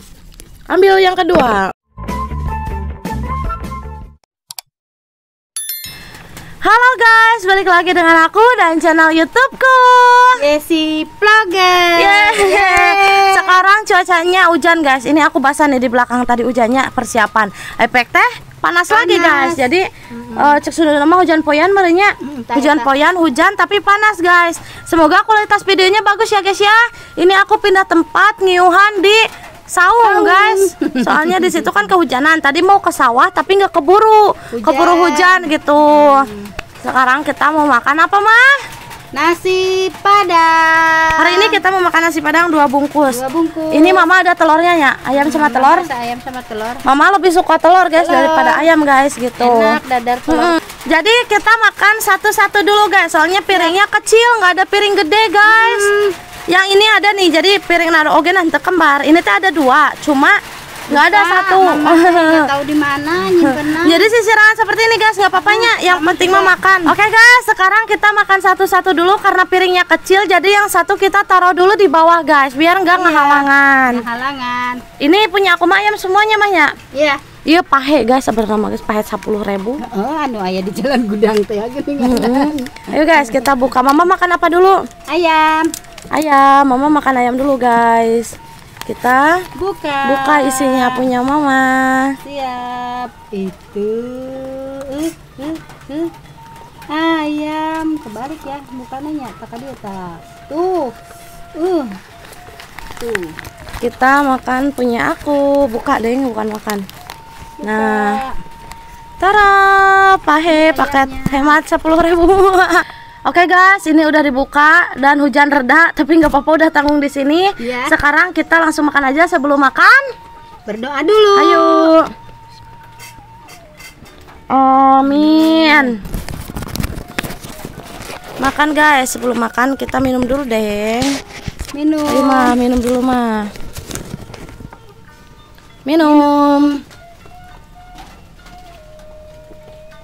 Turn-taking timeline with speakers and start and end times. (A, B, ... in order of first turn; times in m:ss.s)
0:00.7-0:01.7 A
0:06.6-0:10.4 A
0:10.4-0:13.6 B
0:12.0-0:36.3 A
0:18.9-0:20.6 B
0:22.2-0:22.9 B
0:30.0-0:31.8 B
0:34.5-0:36.5 B
0:36.8-0:38.6 A
0:39.1-0:41.6 B
0:41.2-0:43.2 A
0:43.1-0:44.0 B
0:43.7-0:45.9 A
0:45.1-0:46.8 B
0:46.8-0:55.9 A
0:48.0-0:48.7 B
0:49.4-0:50.6 B
0:55.4-0:56.2 B
0:56.5-1:00.4 A
1:00.9-1:04.1 B
1:00.9-1:02.5 A
1:03.3-1:14.0 A
1:05.3-1:06.9 B
1:12.9-1:14.8 B
1:15.0-1:16.7 A
1:16.9-1:17.2 B
1:17.4-1:19.8 A
1:19.8-1:23.7 B
1:22.0-1:24.8 A
1:25.1-1:25.7 B
1:26.1-1:29.4 A
1:29.6-1:31.1 B
1:30.0-1:32.2 A
1:32.2-1:36.1 B
1:36.9-1:41.0 B
1:41.6-1:42.0 B
1:43.0-1:43.4 B
1:43.8-1:46.8 A
1:47.6-1:48.3 B
1:47.6-1:48.2 A
1:49.2-2:00.0 A
1:50.5-1:51.6 B
1:57.6-1:57.9 B
2:00.6-2:01.9 B
2:01.3-2:02.1 A
2:04.5-2:05.9 A
2:05.0-2:06.0 B
2:08.4-2:11.2 A
2:11.7-2:12.5 B
2:12.1-2:13.5 A
2:15.8-2:16.8 A
2:16.0-2:16.8 B